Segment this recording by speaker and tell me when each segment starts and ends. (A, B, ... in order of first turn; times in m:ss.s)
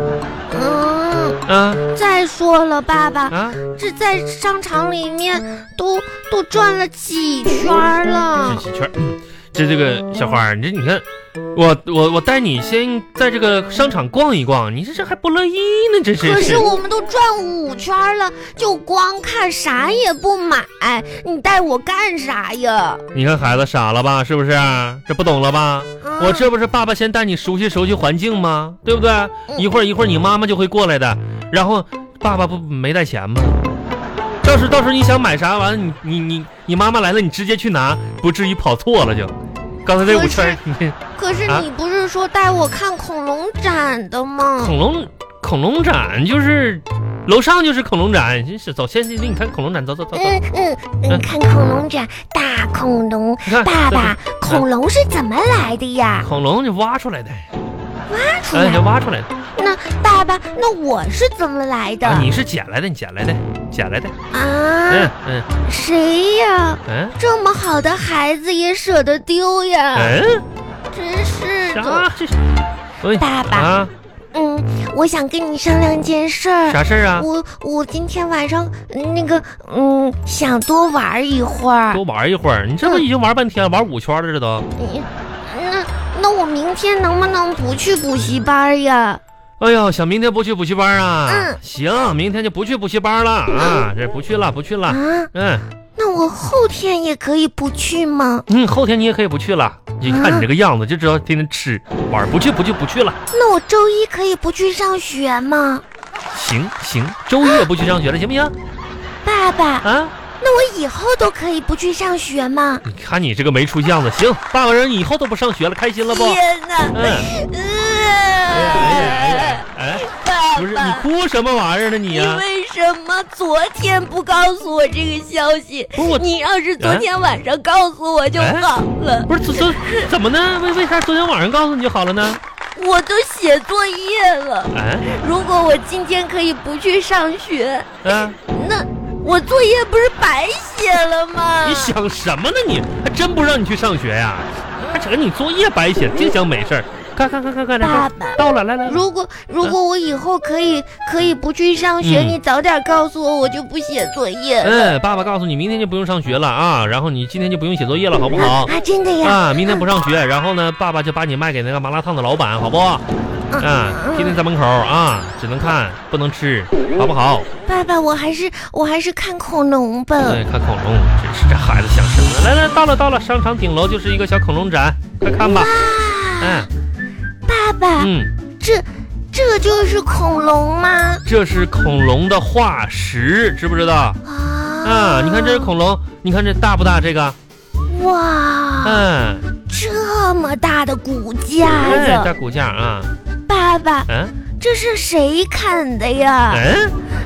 0:00.5-0:08.6 A
0:01.5-0:01.9 B
0:03.3-0:03.6 B
0:08.4-0:16.7 B
0:16.2-0:23.0 A
0:23.1-0:33.6 B
0:26.0-0:26.5 A
0:34.4-0:39.3 B
0:39.8-0:41.7 B
0:40.1-0:40.6 A
0:41.2-0:44.8 A
0:44.6-0:50.4 B
0:50.1-0:56.3 A
0:53.5-0:54.7 B
0:56.2-0:57.5 B
0:58.1-0:58.8 A
0:58.5-0:59.3 B
0:59.6-1:02.3 A
1:02.0-1:04.1 B
1:04.3-1:05.1 A
1:04.9-1:05.5 B
1:05.6-1:10.2 A
1:06.9-1:07.2 B
1:09.9-1:10.4 B
1:10.9-1:12.1 A
1:11.7-1:12.4 B
1:13.0-1:13.9 B
1:13.2-1:13.7 A
1:14.3-1:22.0 A
1:16.7-1:17.3 B
1:21.9-1:24.7 B
1:24.8-1:29.2 A
1:29.6-1:35.7 B
1:31.3-1:31.6 A
1:33.5-1:33.8 A
1:34.9-1:35.3 A
1:36.0-1:38.5 A
1:38.5-1:43.2 B
1:40.0-1:40.5 A
1:43.3-1:45.8 A
1:46.3-1:48.5 B
1:49.2-1:49.9 A
1:49.8-1:50.1 B
1:50.4-1:52.8 A
1:52.8-1:56.4 B
1:56.1-2:01.1 A
1:56.9-1:57.3 B
1:58.5-2:02.4 B
2:02.1-2:10.1 A
2:06.0-2:06.2 B
2:06.8-2:07.1 B
2:08.4-2:08.7 B
2:09.3-2:12.4 B
2:12.8-2:17.9 A
2:14.7-2:15.1 B
2:18.0-2:18.4 B
2:18.5-2:22.0 A
2:21.6-2:29.0 B
2:27.8-2:34.9 A
2:32.0-2:32.4 B
2:34.6-2:43.0 B
2:38.3-2:39.8 A
2:43.5-2:44.4 A
2:43.6-2:47.5 B
2:47.7-2:50.4 A
2:50.3-2:55.8 B
2:55.4-2:56.7 A
2:56.4-2:56.7 B
2:57.5-3:01.2 A
2:58.0-2:58.3 B
3:01.3-3:04.2 B
3:04.2-3:05.7 A
3:04.8-3:07.4 B
3:07.9-3:09.0 A
3:08.8-3:09.4 B
3:09.7-3:12.3 A
3:11.8-3:13.1 B
3:13.5-3:16.7 A
3:14.1-3:14.4 B
3:16.5-3:16.9 B